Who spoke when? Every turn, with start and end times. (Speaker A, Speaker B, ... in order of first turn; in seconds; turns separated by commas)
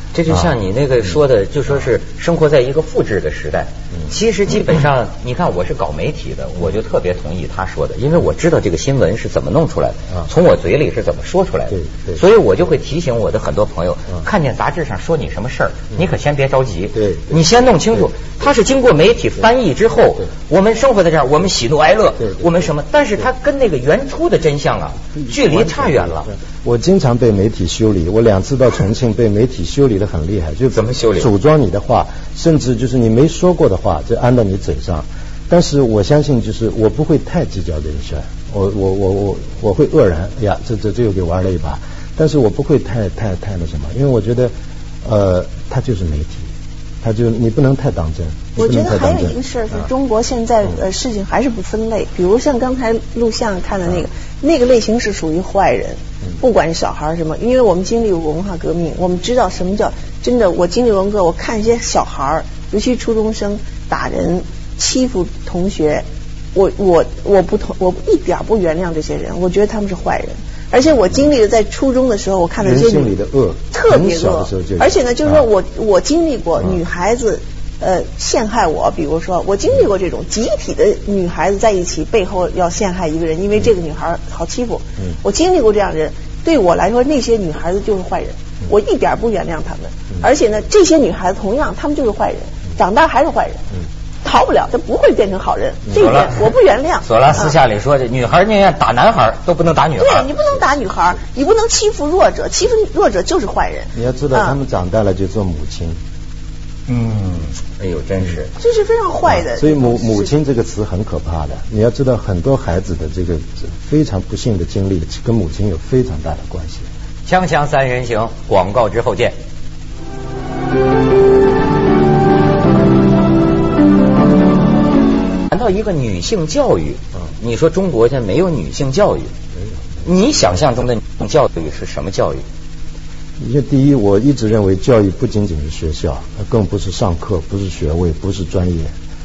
Speaker A: 0.1-26.3, Speaker B: 11.7-12.2, Speaker B: 17.0-17.3, Speaker B: 25.2-44.5, Speaker A: 30.7-31.3, Speaker B: 45.0-46.5, Speaker B: 47.0-49.4, Speaker C: 48.6-73.1, Speaker B: 72.6-75.4, Speaker C: 73.7-93.7, Speaker C: 94.2-97.5, Speaker A: 95.9-96.5, Speaker A: 97.0-100.3, Speaker C: 100.0-104.6, Speaker B: 104.0-106.0, Speaker A: 106.9-108.5, Speaker C: 108.6-110.3, Speaker B: 109.4-116.9, Speaker A: 117.3-119.3, Speaker A: 125.5-129.3, Speaker A: 130.0-132.4, Speaker B: 133.4-138.9